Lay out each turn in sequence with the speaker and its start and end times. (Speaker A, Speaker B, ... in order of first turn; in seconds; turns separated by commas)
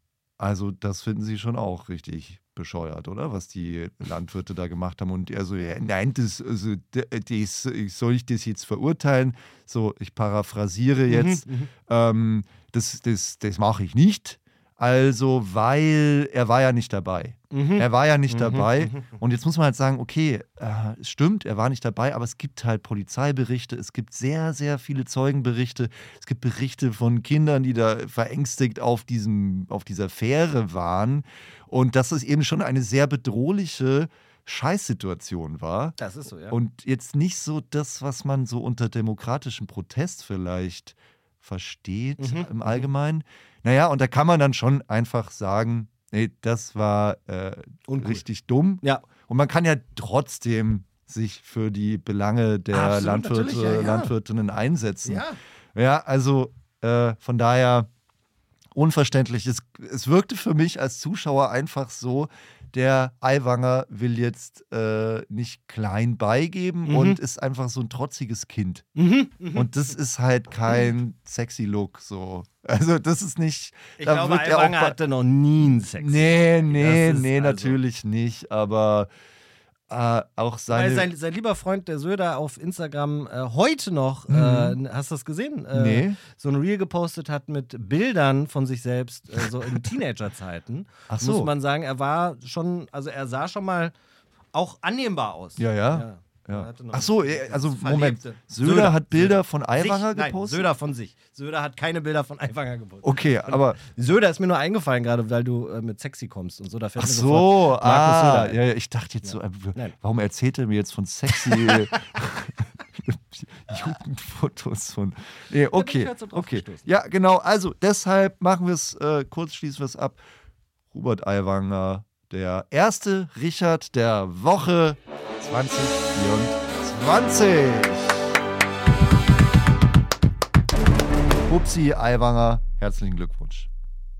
Speaker A: 0.4-36.0, Speaker B: 11.1-11.7, Speaker B: 17.5-19.1, Speaker B: 36.0-36.6, Speaker A: 36.5-57.9, Speaker B: 42.2-42.9, Speaker B: 47.9-48.2, Speaker B: 52.7-54.1, Speaker B: 55.0-55.4, Speaker A: 58.7-68.9, Speaker B: 66.8-67.2, Speaker B: 69.0-69.7, Speaker A: 69.5-75.0, Speaker B: 74.0-77.8, Speaker A: 75.9-79.1, Speaker A: 79.9-81.1, Speaker B: 80.7-93.9, Speaker A: 84.3-84.8, Speaker A: 85.7-86.2, Speaker A: 91.1-91.5, Speaker B: 94.5-108.6, Speaker A: 95.6-100.7, Speaker A: 103.0-103.8, Speaker A: 107.0-120.2, Speaker B: 109.2-110.0, Speaker B: 111.5-112.0, Speaker B: 115.7-116.9, Speaker A: 120.9-128.3, Speaker A: 131.5-133.7